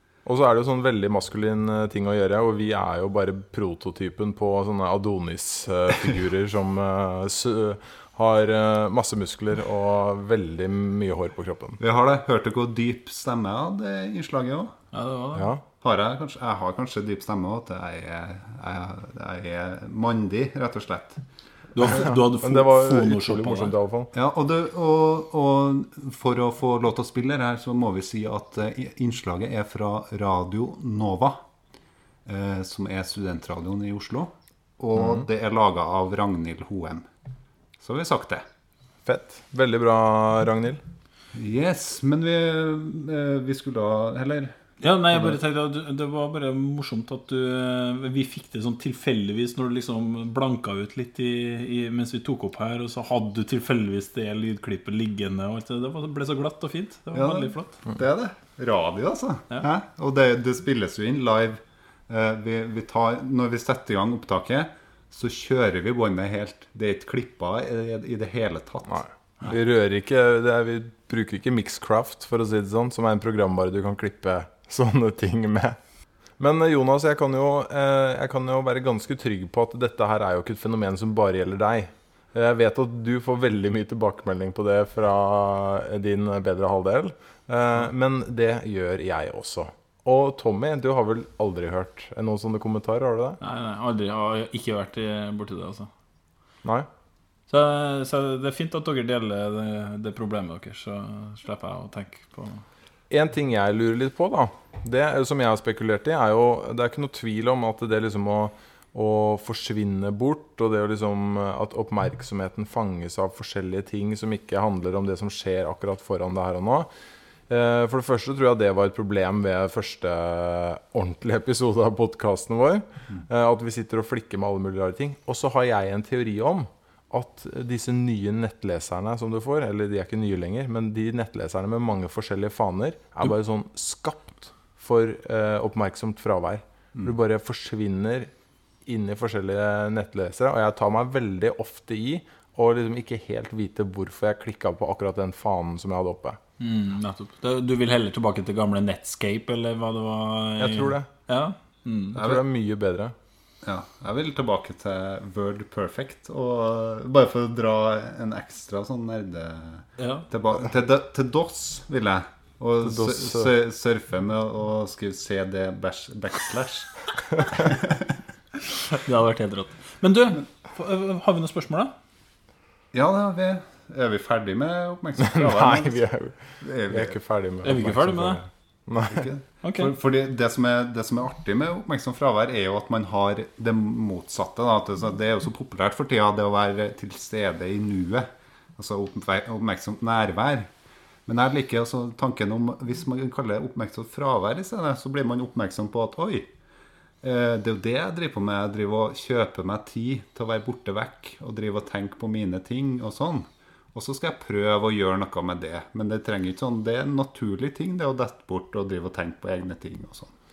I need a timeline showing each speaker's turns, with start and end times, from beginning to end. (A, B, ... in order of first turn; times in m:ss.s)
0:00.2-0:11.8 A
0:11.8-0:14.7 B
0:14.9-0:15.5 C
0:15.3-0:15.6 A
0:15.8-0:21.2 B
0:21.7-0:23.7 C
0:21.9-0:24.1 A
0:24.1-0:31.4 B
0:32.2-0:37.1 B
0:35.0-0:35.2 A
0:37.8-0:38.4 B
0:39.0-0:40.8 A
0:41.3-0:44.6 B
0:44.8-0:57.8 C
0:45.1-0:45.4 B
0:57.1-1:09.5 B
1:08.9-1:15.8 A
1:16.4-1:33.4 A
1:33.4-1:35.9 C
1:37.5-1:42.6 C
1:43.1-1:56.9 A
1:57.5-2:18.3 A
2:18.8-2:26.4 A
2:26.6-2:32.4 C
2:30.6-2:31.0 A
2:32.1-2:33.1 A
2:33.6-2:46.9 B
2:40.0-2:40.3 C
2:42.8-2:43.5 A
2:47.5-2:48.2 B
2:48.9-2:51.9 C
2:52.9-2:56.0 B
2:55.2-2:59.3 A
2:56.6-2:57.2 B
2:57.6-2:58.4 C
2:59.0-3:10.7 B
2:59.6-2:59.9 C
3:11.2-3:16.5 B
3:17.2-3:30.3 B